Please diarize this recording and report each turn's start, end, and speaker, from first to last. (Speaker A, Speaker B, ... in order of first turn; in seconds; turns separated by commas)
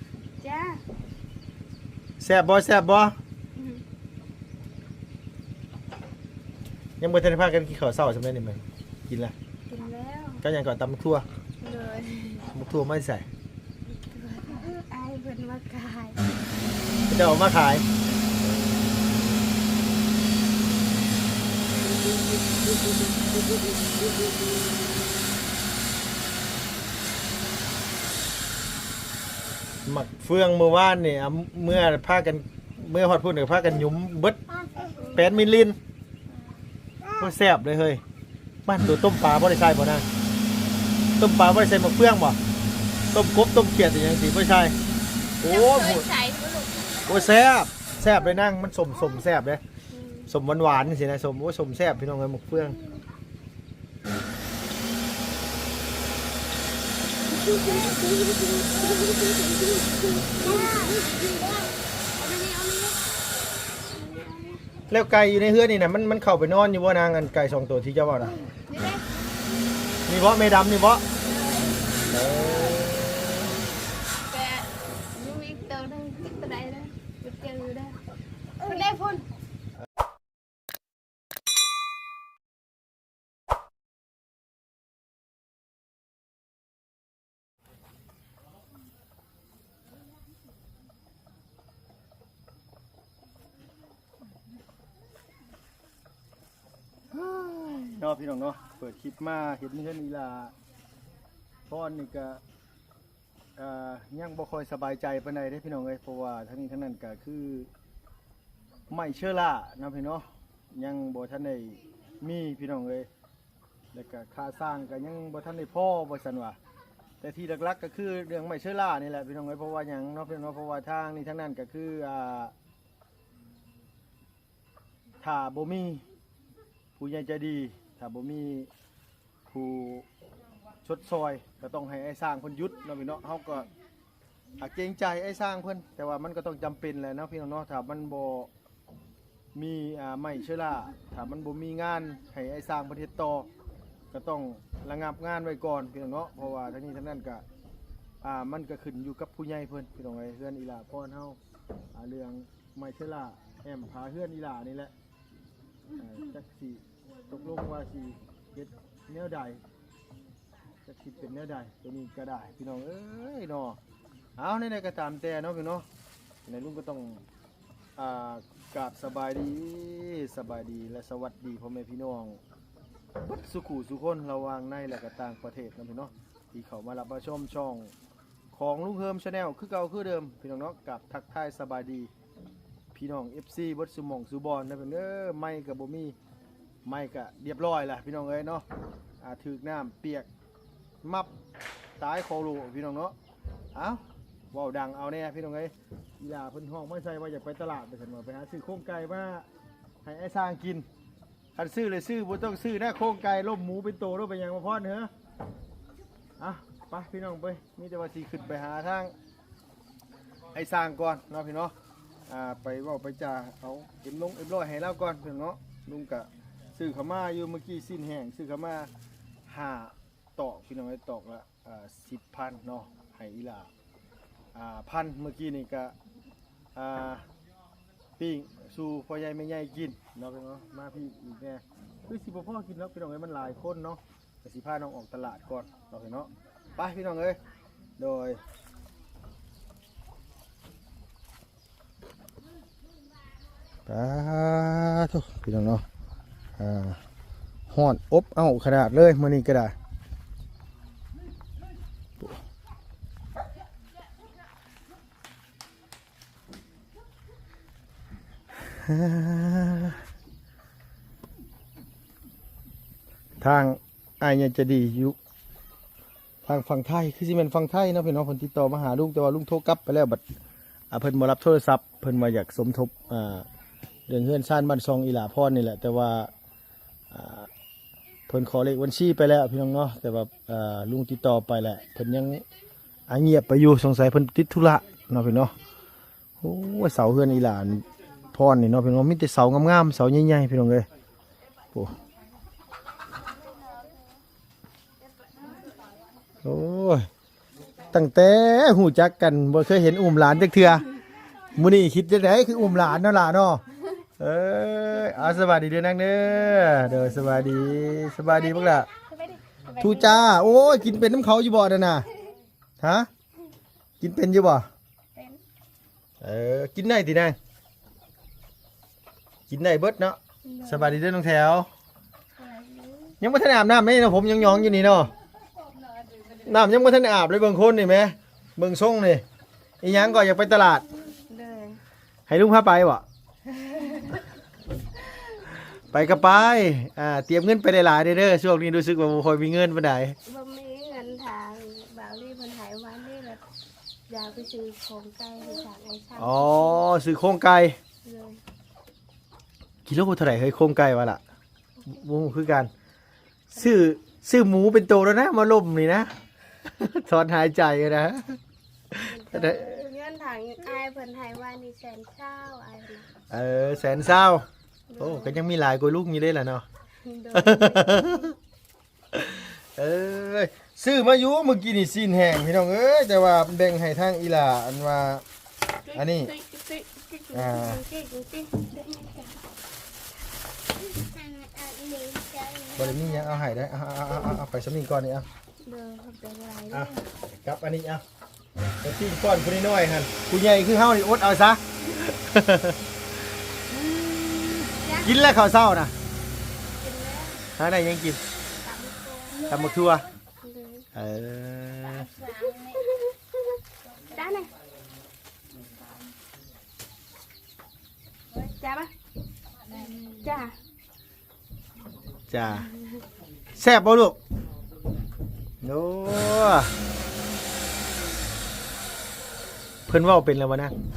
Speaker A: 0.4-0.8, Speaker B: 2.2-3.1, Speaker B: 7.0-9.3, Speaker A: 9.7-10.4, Speaker B: 10.4-11.2, Speaker A: 11.6-12.5, Speaker B: 12.5-13.2, Speaker A: 13.9-16.3, Speaker B: 17.1-17.9, Speaker B: 29.9-34.4, Speaker A: 35.0-35.3, Speaker B: 35.1-35.8, Speaker B: 37.2-38.0, Speaker B: 38.7-40.0, Speaker B: 41.2-42.4, Speaker B: 43.1-44.8, Speaker B: 45.4-46.0, Speaker A: 45.4-47.3, Speaker B: 47.1-49.6, Speaker A: 49.9-50.3, Speaker B: 50.3-52.8, Speaker A: 57.3-61.5, Speaker A: 62.2-63.0, Speaker A: 63.9-64.6, Speaker B: 64.9-68.3, Speaker A: 68.7-69.0, Speaker B: 70.1-71.0, Speaker A: 71.1-72.8, Speaker B: 72.1-73.5, Speaker A: 74.3-78.0, Speaker A: 78.6-79.2, Speaker B: 97.1-100.5, Speaker B: 101.7-102.4, Speaker B: 103.6-107.7, Speaker B: 108.9-113.1, Speaker B: 113.9-116.6, Speaker B: 117.2-122.5, Speaker B: 125.2-126.0, Speaker B: 127.0-128.7, Speaker B: 129.5-130.1, Speaker B: 130.8-133.7, Speaker B: 134.6-138.5, Speaker B: 139.6-143.5, Speaker B: 144.1-147.4, Speaker B: 148.2-151.4, Speaker B: 151.9-154.9, Speaker B: 155.9-159.6, Speaker B: 160.8-163.8, Speaker B: 164.4-165.8, Speaker B: 166.5-167.2, Speaker B: 168.0-172.4, Speaker B: 173.2-177.9, Speaker B: 178.5-182.1, Speaker B: 182.9-186.2, Speaker B: 186.8-188.7, Speaker B: 189.2-190.3, Speaker B: 191.0-191.3, Speaker B: 192.0-193.2, Speaker B: 193.7-199.4, Speaker B: 200.0-200.9, Speaker B: 201.6-205.1, Speaker B: 206.4-209.1, Speaker B: 210.5-211.7, Speaker B: 212.3-218.9, Speaker B: 219.5-223.7, Speaker B: 224.5-225.9, Speaker B: 226.8-227.2, Speaker B: 228.2-237.4, Speaker B: 238.0-238.4, Speaker B: 243.9-245.8, Speaker B: 246.6-247.0, Speaker B: 247.7-249.8, Speaker B: 258.6-260.0, Speaker B: 263.4-265.1, Speaker B: 266.4-270.2, Speaker B: 270.9-273.4, Speaker B: 274.1-276.3, Speaker B: 277.1-277.5, Speaker B: 278.3-282.4, Speaker B: 283.1-285.5, Speaker B: 286.4-290.9, Speaker B: 296.4-297.1, Speaker B: 297.9-300.8, Speaker B: 301.5-303.6, Speaker B: 304.2-308.9, Speaker A: 308.2-310.7, Speaker B: 309.8-312.1, Speaker B: 312.8-313.1, Speaker B: 314.0-314.7, Speaker A: 315.1-315.4, Speaker B: 316.2-317.4, Speaker B: 319.5-321.7, Speaker A: 320.4-321.0, Speaker A: 322.3-323.1, Speaker B: 323.2-325.1, Speaker B: 326.4-329.2, Speaker B: 329.8-330.8, Speaker A: 331.2-331.8, Speaker B: 332.3-333.0, Speaker A: 333.5-334.2, Speaker B: 335.9-340.1, Speaker A: 340.2-343.4, Speaker A: 344.1-346.8, Speaker B: 346.2-347.8, Speaker A: 348.0-348.4, Speaker B: 349.9-351.2, Speaker B: 351.9-352.7, Speaker B: 353.5-356.1, Speaker B: 356.6-358.4, Speaker B: 358.9-359.8, Speaker A: 359.0-363.1, Speaker B: 363.3-364.4, Speaker A: 364.9-365.4, Speaker B: 365.0-366.6, Speaker A: 367.0-368.3, Speaker B: 367.3-368.3, Speaker B: 369.1-375.2, Speaker A: 375.9-379.3, Speaker B: 375.9-376.3, Speaker B: 377.3-377.8, Speaker A: 380.9-383.3, Speaker B: 382.8-385.2, Speaker A: 385.6-387.0, Speaker B: 387.4-388.0, Speaker B: 388.8-392.8, Speaker B: 393.7-395.9, Speaker A: 394.8-395.1, Speaker A: 396.8-397.4, Speaker B: 397.6-398.2, Speaker A: 398.6-399.5, Speaker B: 399.5-400.1, Speaker A: 400.4-400.9, Speaker B: 400.9-402.1, Speaker A: 402.0-403.1, Speaker A: 404.0-404.5, Speaker A: 408.3-408.9, Speaker A: 410.2-410.5, Speaker B: 412.3-412.7, Speaker A: 412.5-413.0, Speaker B: 413.6-414.2, Speaker B: 415.6-416.7, Speaker B: 419.9-420.7